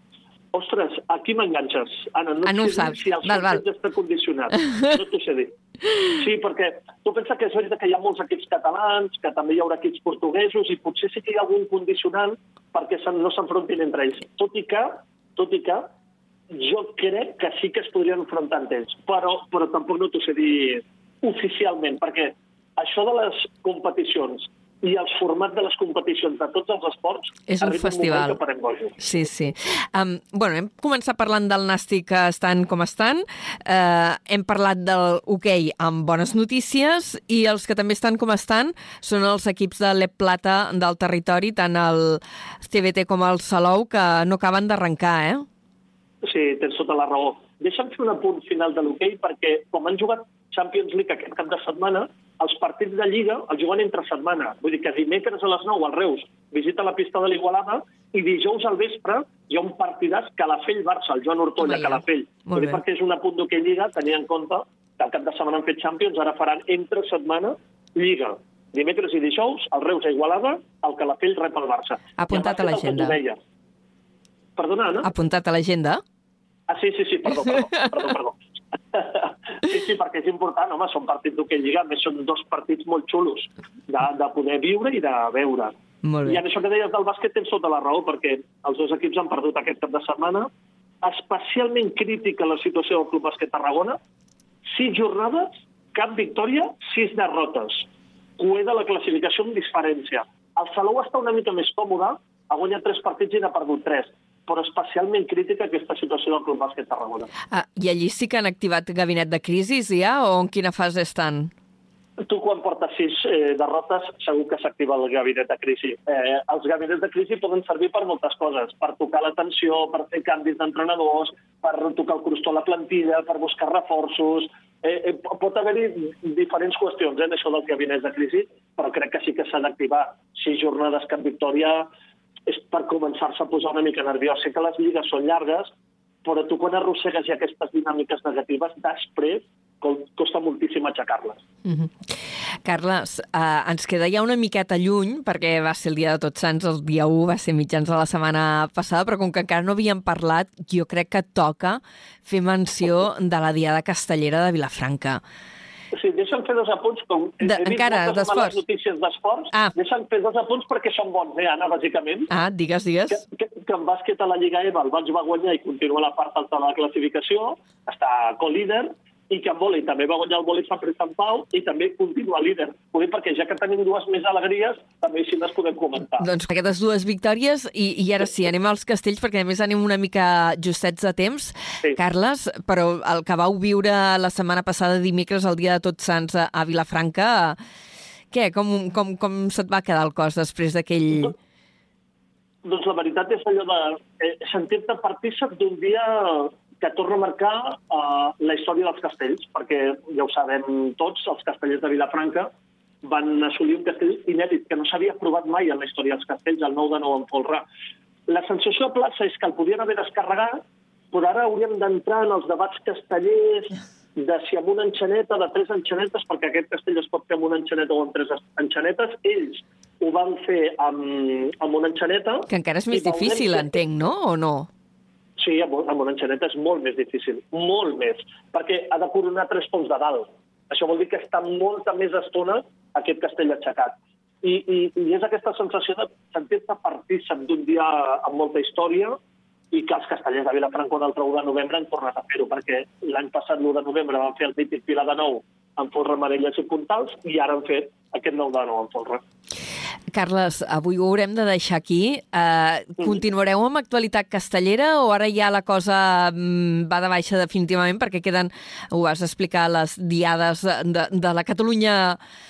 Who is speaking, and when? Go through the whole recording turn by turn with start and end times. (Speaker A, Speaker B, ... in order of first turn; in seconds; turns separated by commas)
Speaker A: 0.5-5.5, Speaker B: 2.4-3.6, Speaker A: 6.1-15.9, Speaker A: 16.5-29.0, Speaker B: 27.5-28.4, Speaker B: 29.0-45.5, Speaker A: 46.2-73.4, Speaker B: 61.6-62.8, Speaker B: 72.2-73.2, Speaker A: 74.6-75.1, Speaker B: 75.0-76.0, Speaker A: 76.7-78.4, Speaker A: 78.9-90.5, Speaker B: 86.0-86.4, Speaker A: 91.0-94.0, Speaker A: 94.7-97.9, Speaker A: 98.4-107.3, Speaker B: 107.5-111.5, Speaker A: 112.3-131.9, Speaker A: 132.5-135.7, Speaker A: 136.2-141.4, Speaker B: 141.6-141.9, Speaker B: 142.6-155.2, Speaker A: 155.9-162.3, Speaker B: 157.4-158.6, Speaker B: 162.3-163.2, Speaker A: 163.1-176.3, Speaker B: 176.2-187.6, Speaker B: 188.3-191.3, Speaker A: 192.6-202.5, Speaker A: 203.0-207.6, Speaker A: 208.3-210.6, Speaker A: 211.1-223.7, Speaker B: 222.5-224.7, Speaker A: 225.4-239.2, Speaker A: 239.7-249.2, Speaker B: 250.1-262.2